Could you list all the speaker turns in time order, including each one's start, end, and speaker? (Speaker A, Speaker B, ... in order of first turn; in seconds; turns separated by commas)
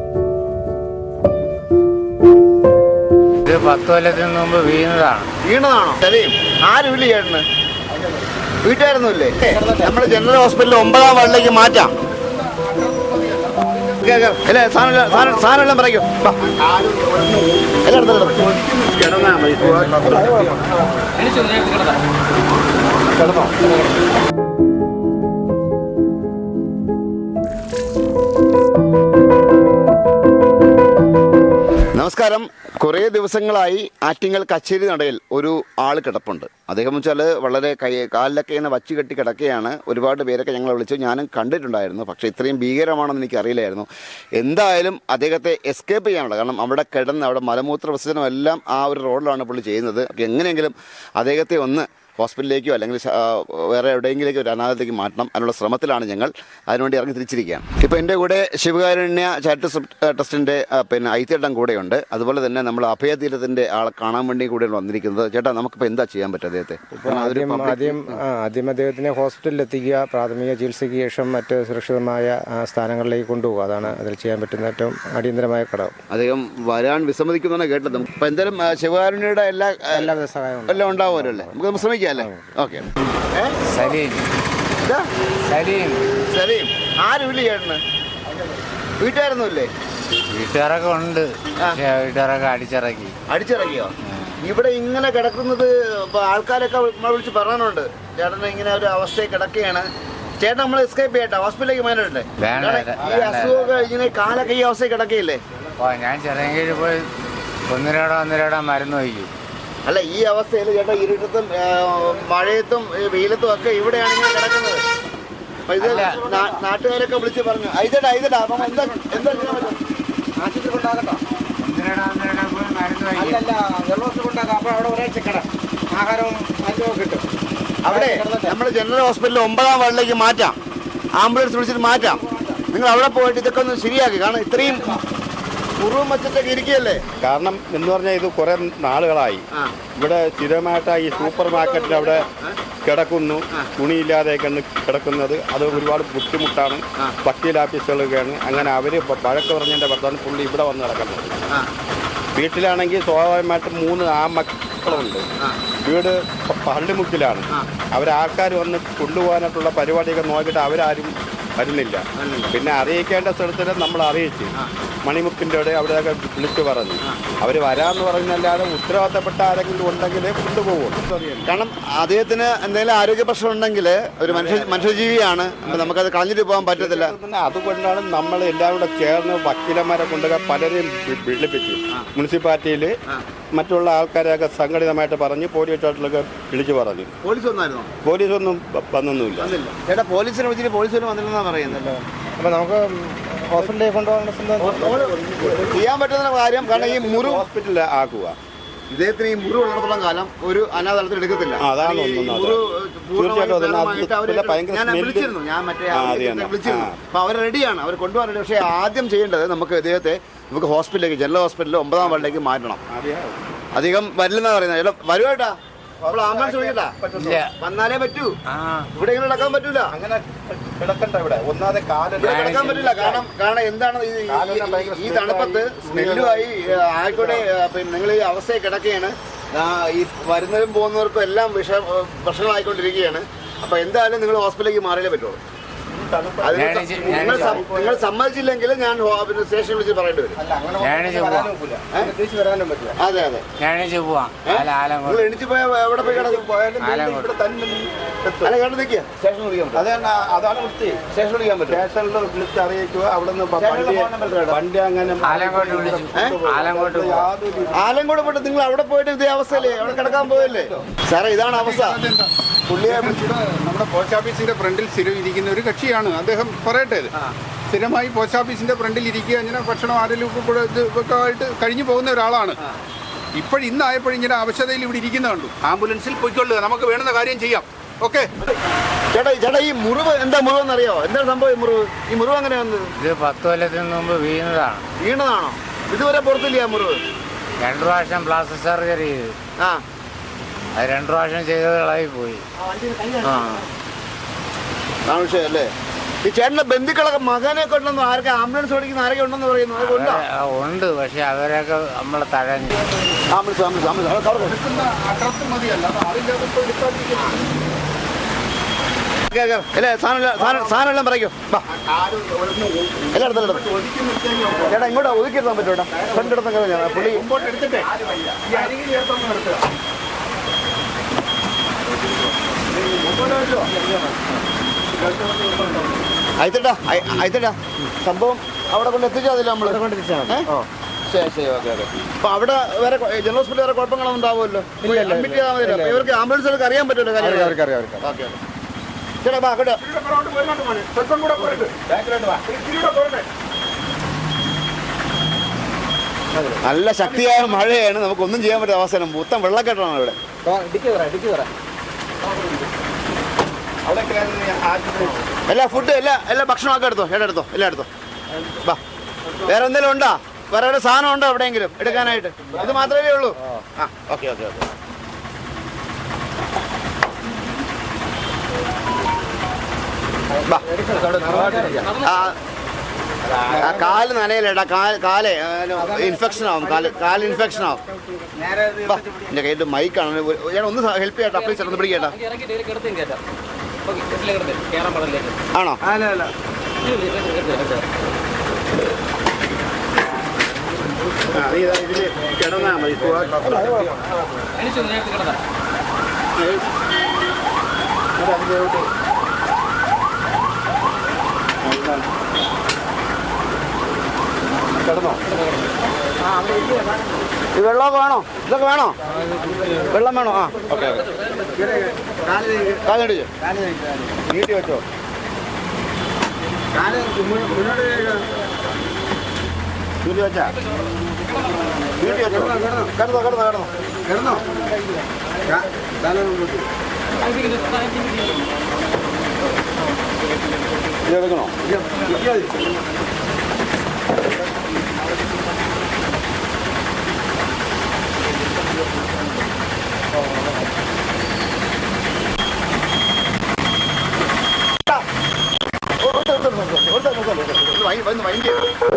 Speaker A: 3.5-5.3, Speaker B: 5.4-7.4, Speaker B: 8.6-12.0, Speaker C: 9.5-9.9, Speaker D: 12.1-14.0, Speaker B: 14.0-16.2, Speaker E: 15.1-15.5, Speaker E: 16.2-17.8, Speaker B: 17.8-18.5, Speaker E: 18.3-20.6, Speaker B: 19.6-20.0, Speaker C: 20.0-20.6, Speaker D: 21.3-22.0, Speaker E: 23.1-23.7, Speaker B: 31.9-68.2, Speaker C: 67.0-76.0, Speaker B: 76.1-80.1, Speaker C: 79.9-82.5, Speaker B: 80.7-83.6, Speaker A: 83.7-84.3, Speaker A: 85.5-86.1, Speaker B: 86.3-87.8, Speaker B: 89.0-89.7, Speaker A: 90.3-93.2, Speaker B: 93.3-105.4, Speaker A: 94.1-94.4, Speaker A: 102.4-103.7, Speaker A: 105.8-107.1, Speaker A: 107.7-109.3, Speaker B: 109.8-114.8, Speaker B: 115.7-119.8, Speaker A: 115.8-116.2, Speaker C: 115.9-116.6, Speaker C: 118.6-119.7, Speaker C: 120.4-121.2, Speaker A: 121.6-123.4, Speaker C: 123.1-127.2, Speaker B: 127.8-130.6, Speaker C: 127.9-128.6, Speaker B: 131.2-135.0, Speaker B: 135.8-137.0, Speaker E: 137.2-139.4, Speaker E: 140.0-142.3, Speaker B: 142.2-142.6, Speaker E: 142.8-151.4, Speaker E: 152.3-155.3, Speaker B: 154.9-155.6, Speaker E: 155.8-164.5, Speaker B: 162.2-162.5, Speaker E: 165.1-171.5, Speaker B: 171.5-177.1, Speaker E: 174.3-176.0, Speaker E: 176.6-182.9, Speaker E: 183.5-187.1, Speaker B: 187.2-187.9, Speaker E: 188.0-189.6, Speaker B: 189.4-192.0, Speaker C: 192.4-195.0, Speaker B: 194.6-197.4, Speaker E: 195.1-195.7, Speaker E: 196.6-198.4, Speaker B: 198.9-212.8, Speaker E: 201.6-202.6, Speaker E: 203.2-205.3, Speaker E: 205.9-207.0, Speaker E: 212.0-212.3, Speaker E: 212.9-213.4, Speaker B: 213.7-215.6, Speaker E: 216.0-217.4, Speaker B: 216.1-217.0, Speaker A: 217.2-217.5, Speaker B: 217.5-218.3, Speaker A: 218.5-218.9, Speaker B: 218.9-219.9, Speaker E: 219.9-223.3, Speaker B: 222.2-235.4, Speaker A: 222.2-222.7, Speaker E: 224.3-227.4, Speaker E: 235.9-237.8, Speaker B: 236.4-240.4, Speaker A: 236.5-237.6, Speaker C: 240.4-242.9, Speaker A: 240.8-241.5, Speaker B: 243.0-243.4, Speaker A: 243.6-245.3, Speaker B: 244.5-246.5, Speaker E: 246.0-248.6, Speaker A: 246.8-247.3, Speaker B: 248.4-249.9, Speaker E: 249.8-251.0, Speaker B: 251.1-251.8, Speaker E: 251.7-257.9, Speaker B: 253.6-254.6, Speaker A: 255.2-257.3, Speaker B: 257.7-262.0, Speaker E: 259.5-260.9, Speaker D: 261.6-262.3, Speaker B: 262.7-263.3, Speaker D: 262.9-267.1, Speaker D: 267.7-272.6, Speaker D: 273.4-278.3, Speaker B: 279.1-282.9, Speaker A: 283.0-284.8, Speaker B: 285.0-287.0, Speaker A: 287.6-289.4, Speaker A: 290.8-292.4, Speaker B: 292.6-293.5, Speaker A: 293.2-293.6, Speaker B: 295.1-295.7, Speaker B: 296.2-300.2, Speaker A: 299.8-302.9, Speaker B: 303.3-304.6, Speaker D: 304.6-307.4, Speaker B: 309.3-311.6, Speaker E: 310.4-310.8, Speaker E: 311.7-315.1, Speaker B: 313.1-313.7, Speaker B: 314.6-317.3, Speaker E: 315.9-316.3, Speaker D: 317.2-317.9, Speaker E: 317.3-319.6, Speaker E: 322.9-323.2, Speaker E: 325.0-325.4, Speaker B: 326.4-330.5, Speaker C: 329.6-330.7, Speaker B: 331.1-338.4, Speaker C: 334.8-336.1, Speaker C: 337.2-338.2, Speaker B: 339.2-339.8, Speaker D: 339.9-341.7, Speaker E: 341.3-343.1, Speaker B: 346.6-350.2, Speaker E: 347.0-347.4, Speaker C: 350.5-351.4, Speaker E: 353.8-355.2, Speaker B: 355.5-357.9, Speaker E: 359.2-359.6, Speaker B: 359.4-363.4, Speaker E: 361.9-362.9, Speaker E: 363.8-364.1, Speaker B: 363.9-364.6, Speaker C: 370.3-371.9, Speaker B: 370.4-372.4, Speaker E: 371.3-371.7, Speaker B: 373.5-377.8, Speaker C: 373.5-373.9, Speaker C: 375.8-377.7, Speaker C: 378.4-379.3, Speaker B: 378.8-382.2, Speaker D: 382.3-383.2, Speaker D: 383.9-385.3, Speaker B: 385.5-385.8, Speaker C: 385.9-386.3, Speaker D: 386.9-387.8, Speaker E: 391.3-394.1, Speaker C: 393.5-393.9, Speaker D: 394.8-395.3, Speaker E: 398.2-398.9, Speaker E: 401.6-402.1, Speaker E: 404.7-405.2, Speaker B: 407.6-409.0, Speaker B: 409.9-410.6, Speaker E: 410.6-411.2, Speaker C: 411.6-412.7, Speaker B: 412.8-413.3, Speaker C: 413.4-414.1, Speaker E: 414.2-414.8, Speaker C: 416.8-418.3, Speaker B: 420.0-420.5, Speaker B: 422.0-423.7, Speaker C: 422.3-422.9, Speaker C: 424.1-424.7, Speaker C: 425.5-426.6, Speaker E: 431.1-431.5, Speaker B: 431.2-431.5, Speaker B: 446.0-448.7